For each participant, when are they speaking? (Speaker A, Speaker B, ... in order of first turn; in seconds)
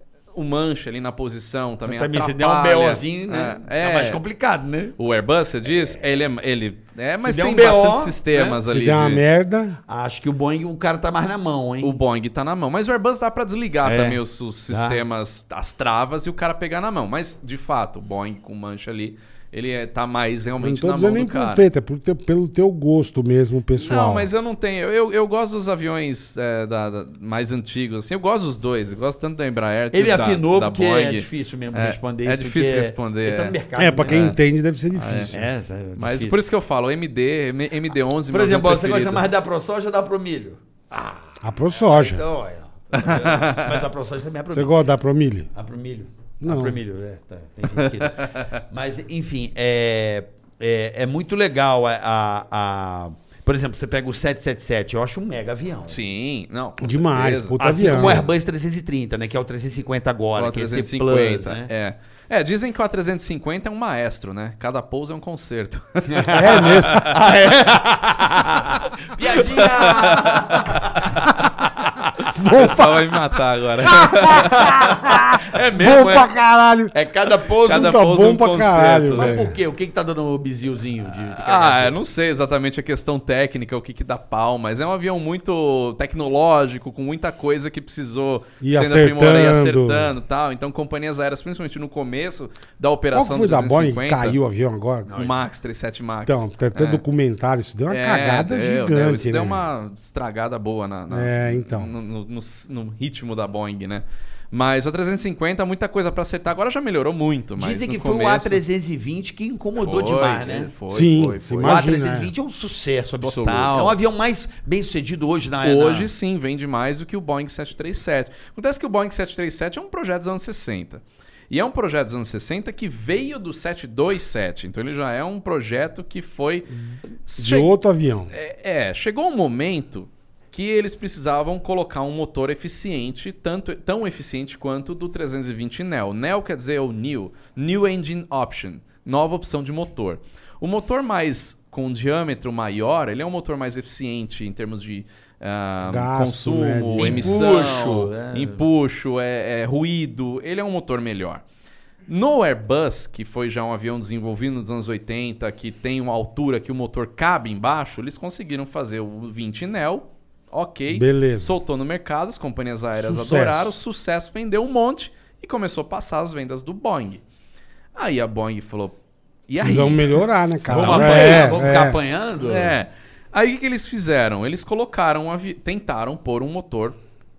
Speaker A: 0.3-4.2, 5.0-9.2, 11.8-21.7, 23.8-33.6, 34.1-34.4, 34.9-35.3, 36.0-39.3, 42.9-43.8, 47.7-48.5, 55.9-58.2, 60.4-67.2, 69.3-71.4, 72.3-75.0, 77.7-79.3, 81.3-94.4, 95.1-97.0, 97.9-108.6, 109.8-111.9, 113.2-114.0, 115.6-126.7, 127.3-127.7, 128.3-151.4, 152.1-167.2, 167.9-169.0, 169.5-171.7, 172.4-177.0
Speaker B: 1.9-5.0, 5.7-6.0, 7.2-8.6, 9.9-12.0, 13.8-15.0, 29.9-34.4, 35.3-36.6, 38.3-44.8, 45.5-56.0, 57.6-61.7, 66.1-72.1, 74.3-76.3, 76.9-78.0, 79.1-82.0, 95.1-95.5, 107.6-110.7, 111.6-116.1, 147.0-148.6, 170.7-172.8
Speaker C: 8.7-9.8, 20.6-24.3, 33.8-35.4, 41.4-42.2, 44.5-45.5, 46.4-46.8, 56.8-58.3, 66.3-67.2, 72.4-72.9, 74.1-76.9, 77.7-79.5, 88.6-90.1, 93.1-95.1, 96.3-99.6, 101.1-101.9, 110.9-112.3, 127.4-128.3, 145.8-147.4, 160.9-161.6, 163.0-163.7, 169.6-172.0